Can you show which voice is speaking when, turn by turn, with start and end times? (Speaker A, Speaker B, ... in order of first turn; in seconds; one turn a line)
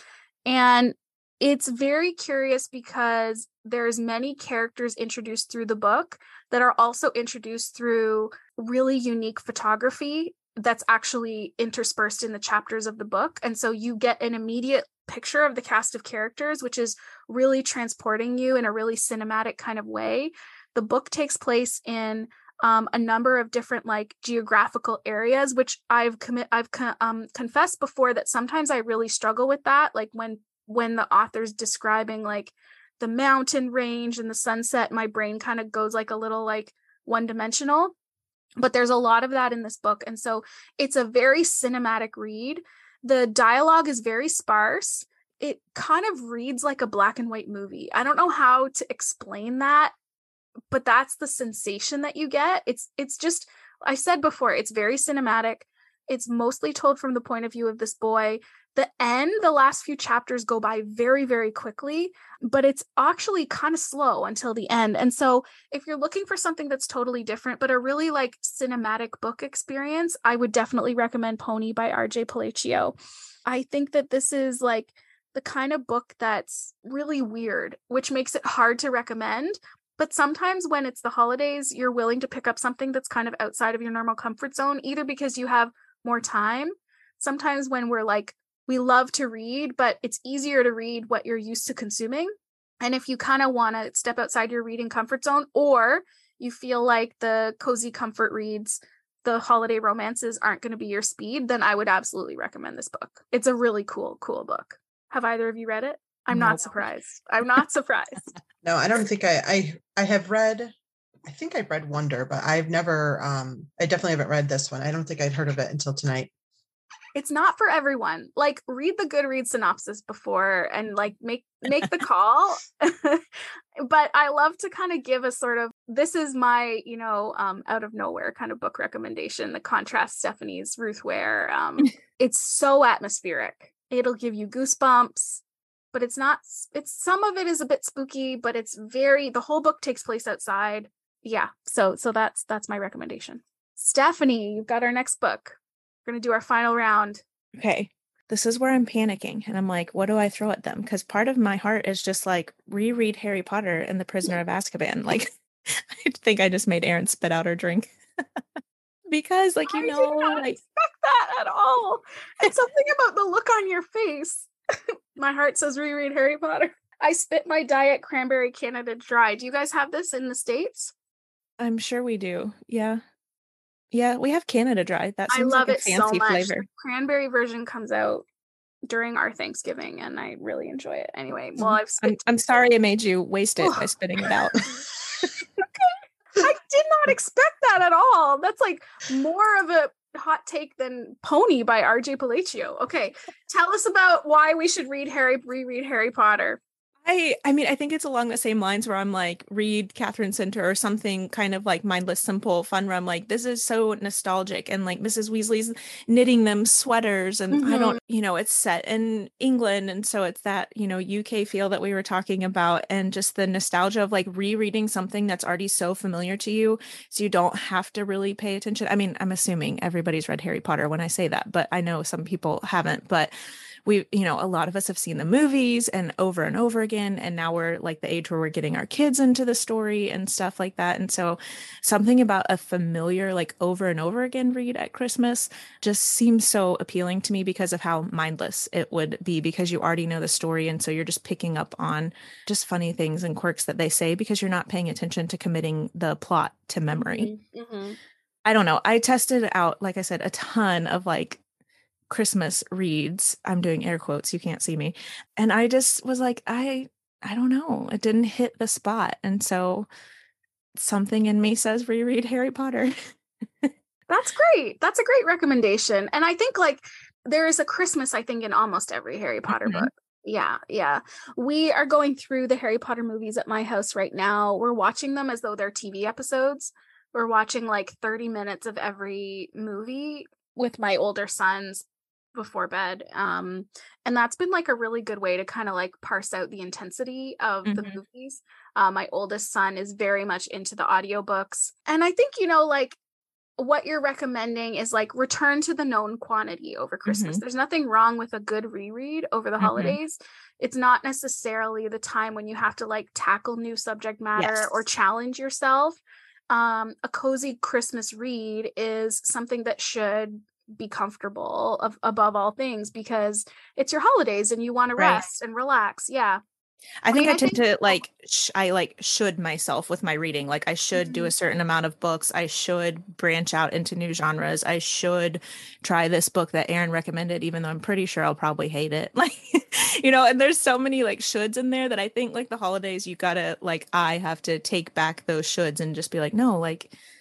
Speaker A: 0.5-37.9
Speaker A: 38.6-49.9
Speaker A: 50.7-72.9
Speaker A: 73.5-108.3
Speaker B: 106.3-106.6
Speaker C: 108.6-110.7
Speaker C: 111.2-116.3
Speaker A: 117.1-123.2
Speaker A: 123.8-135.4
Speaker A: 135.9-147.2
Speaker B: 147.6-155.3
Speaker B: 156.0-157.9
Speaker B: 159.1-160.6
Speaker A: 159.7-164.5
Speaker A: 165.2-170.9
Speaker B: 171.6-173.0
Speaker B: 173.9-176.7
Speaker A: 175.3-178.2
Speaker A: 178.8-182.2
Speaker B: 181.6-184.7
Speaker A: 183.6-183.9
Speaker A: 185.6-196.6
Speaker B: 197.0-223.3
Speaker A: 207.5-208.0
Speaker B: 223.8-247.3
Speaker A: 247.1-248.0
Speaker B: 248.4-251.4
Speaker B: 252.1-259.9
Speaker B: 260.8-262.9
Speaker A: 264.1-293.0
Speaker B: 269.5-269.9
Speaker B: 287.6-288.0
Speaker A: 293.6-306.0
Speaker B: 297.1-297.4
Speaker B: 299.6-300.0
Speaker B: 304.4-304.7
Speaker A: 306.5-316.4
Speaker B: 314.9-315.2
Speaker B: 317.0-336.9
Speaker A: 317.1-318.0
Speaker A: 320.9-321.3